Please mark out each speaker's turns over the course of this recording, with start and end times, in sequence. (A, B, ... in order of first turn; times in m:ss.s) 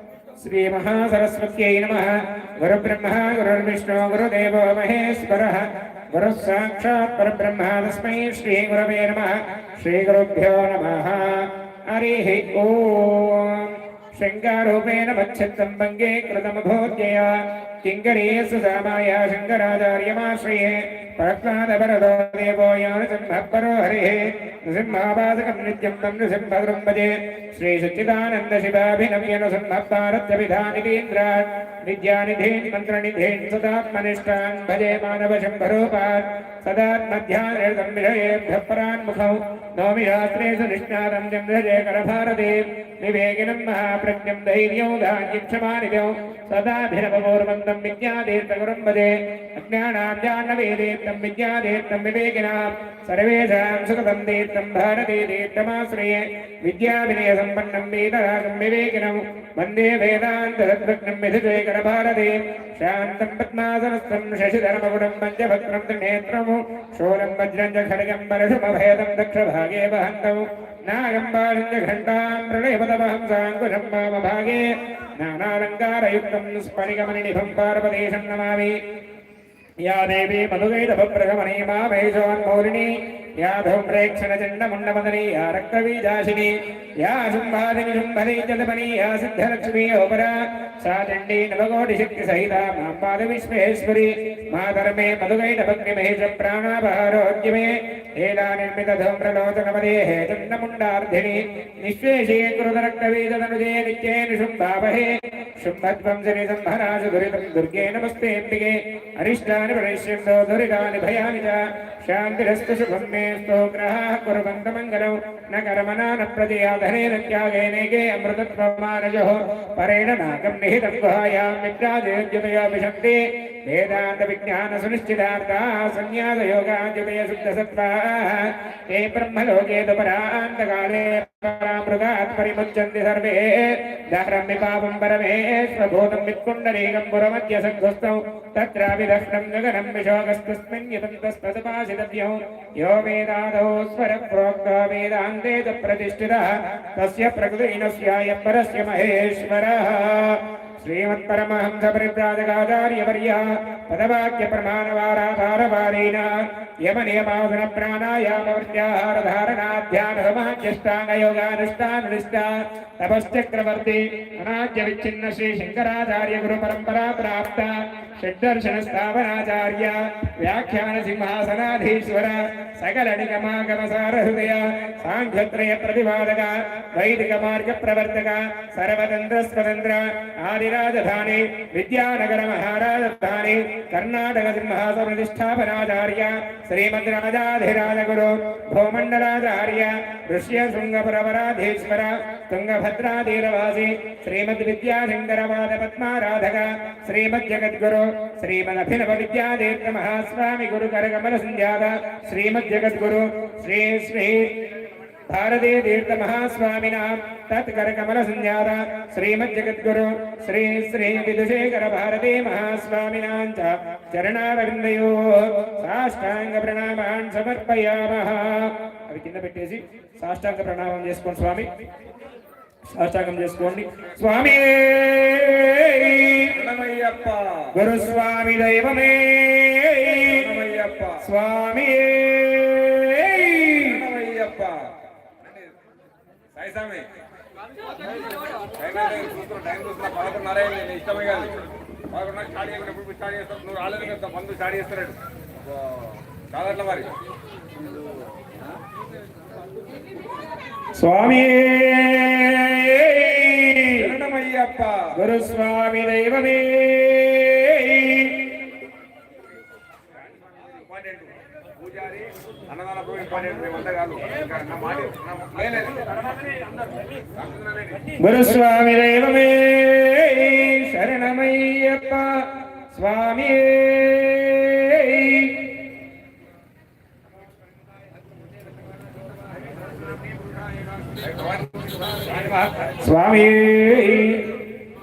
0:00.4-1:18.8 A
1:19.8-3:24.5 A
3:25.3-3:41.7 A
3:42.9-3:46.6 A
3:46.5-3:47.7 B
3:47.8-3:50.5 A
3:50.3-3:51.2 B
3:51.2-3:54.0 A
3:53.8-3:54.8 B
3:55.4-3:55.7 B
3:56.5-3:57.1 B
3:58.8-4:01.6 B
4:02.1-4:05.2 B
4:06.0-4:07.1 B
4:11.0-4:14.1 A
4:14.0-4:15.1 B
4:15.2-4:18.5 A
4:20.5-4:28.1 B
4:28.2-4:35.8 A
4:41.1-4:42.4 B
4:42.3-4:44.6 A